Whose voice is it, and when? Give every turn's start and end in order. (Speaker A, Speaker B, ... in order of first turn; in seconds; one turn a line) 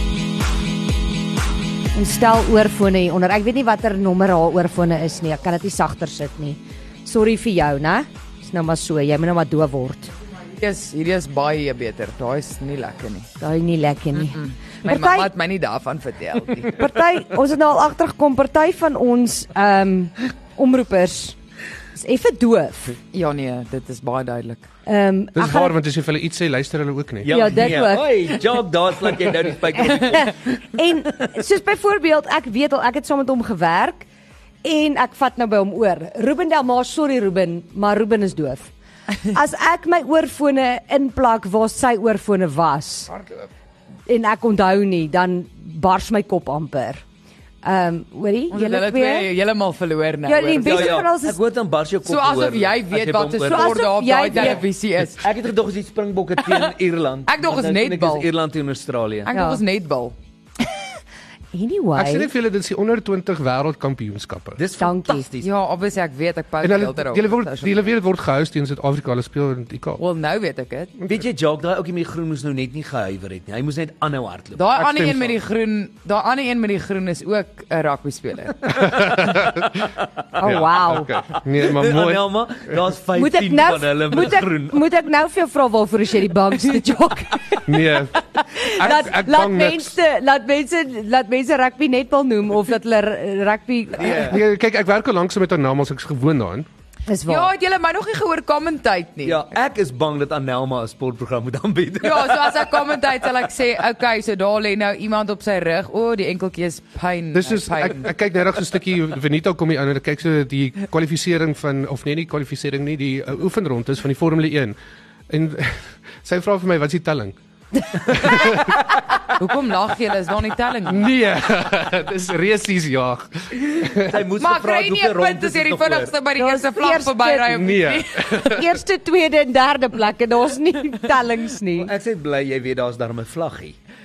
Speaker A: 1.9-10.1
Speaker B: 10.6-13.3
Speaker A: 13.4-15.3
Speaker B: 14.2-16.8
Speaker A: 16.8-21.4
Speaker A: 22.0-23.0
Speaker B: 23.1-24.7
Speaker A: 24.9-25.8
Speaker C: 25.4-27.3
Speaker D: 27.2-30.4
Speaker A: 27.3-28.3
Speaker A: 29.8-34.0
Speaker A: 34.6-38.7
Speaker A: 39.2-43.1
Speaker A: 44.1-47.0
Speaker A: 47.6-49.2
Speaker B: 48.5-51.0
Speaker A: 50.2-51.4
Speaker D: 50.6-54.6
Speaker B: 52.0-55.2
Speaker A: 53.4-54.6
Speaker D: 55.2-59.3
Speaker B: 57.3-58.2
Speaker B: 59.2-60.1
Speaker A: 59.3-59.6
Speaker A: 61.5-62.3
Speaker C: 62.0-64.6
Speaker D: 64.6-65.5
Speaker A: 64.8-65.3
Speaker B: 65.4-67.7
Speaker C: 66.6-70.0
Speaker B: 70.0-70.9
Speaker D: 71.1-74.6
Speaker B: 74.5-78.6
Speaker C: 74.8-75.3
Speaker D: 78.7-79.2
Speaker C: 78.8-79.8
Speaker A: 80.4-81.1
Speaker C: 80.4-82.2
Speaker D: 81.4-84.8
Speaker A: 83.2-87.6
Speaker C: 87.7-88.1
Speaker A: 88.4-94.4
Speaker C: 88.7-90.0
Speaker D: 94.0-94.4
Speaker C: 94.3-96.7
Speaker A: 97.1-97.5
Speaker B: 97.3-99.4
Speaker D: 99.2-102.4
Speaker B: 102.0-108.1
Speaker C: 107.3-114.8
Speaker C: 115.3-117.4
Speaker C: 118.0-119.3
Speaker B: 119.4-121.1
Speaker C: 120.9-124.1
Speaker D: 123.9-126.1
Speaker B: 124.4-128.3
Speaker A: 126.4-127.7
Speaker C: 127.5-128.7
Speaker A: 128.4-131.9
Speaker D: 131.8-133.8